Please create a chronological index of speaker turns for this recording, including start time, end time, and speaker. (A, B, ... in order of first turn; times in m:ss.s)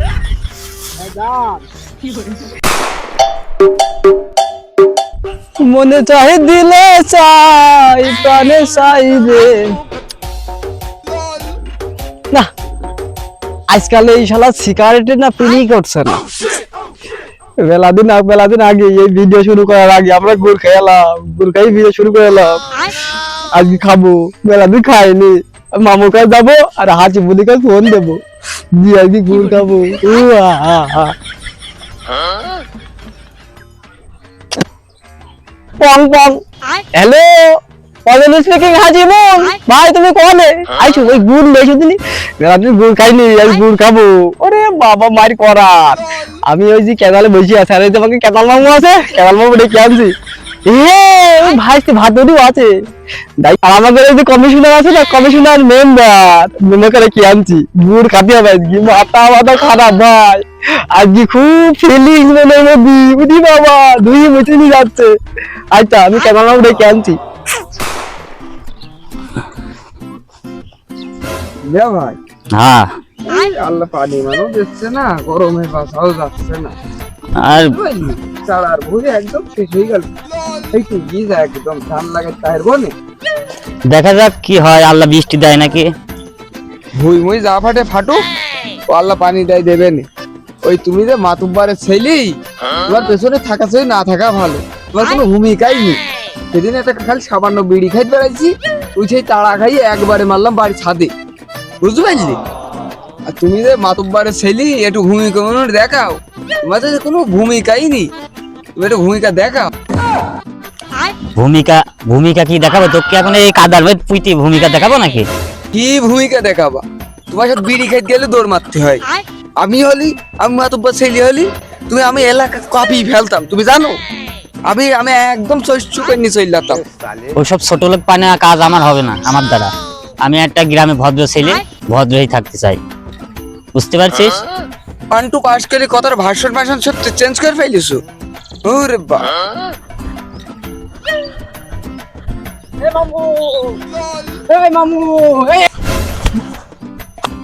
0:01.0-0:01.7 A
0:05.6-0:09.8 A
0:13.7-0:16.2 A
0:17.6-0:22.6 A
0:23.5-0:28.2 A
0:28.7-0:31.1 A
0:35.8-0:36.4 A
0:37.0-0:50.1 A
0:50.7-0:52.7 A
0:53.4-1:05.1 A
1:05.7-1:07.2 A
1:11.6-1:12.2 B
1:12.5-1:12.9 C
1:13.2-1:16.8 B
1:17.4-1:17.7 C
1:17.6-1:20.1 B
1:20.7-1:22.9 B
1:23.9-1:25.9 C
1:27.0-1:28.2 B
1:28.9-1:30.1 B
1:30.6-1:32.4 B
1:32.9-1:36.0 B
1:36.5-1:41.1 B
1:41.8-1:42.4 B
1:43.3-1:48.1 B
1:48.8-1:49.7 B
1:51.4-1:55.2 C
1:55.7-1:59.0 B
1:59.6-2:04.0 B
2:04.7-2:06.8 B
2:07.4-2:12.8 C
2:13.7-2:14.4 C
2:15.1-2:18.0 B
2:18.6-2:19.3 B
2:22.8-2:23.8 A
2:24.5-2:25.7 A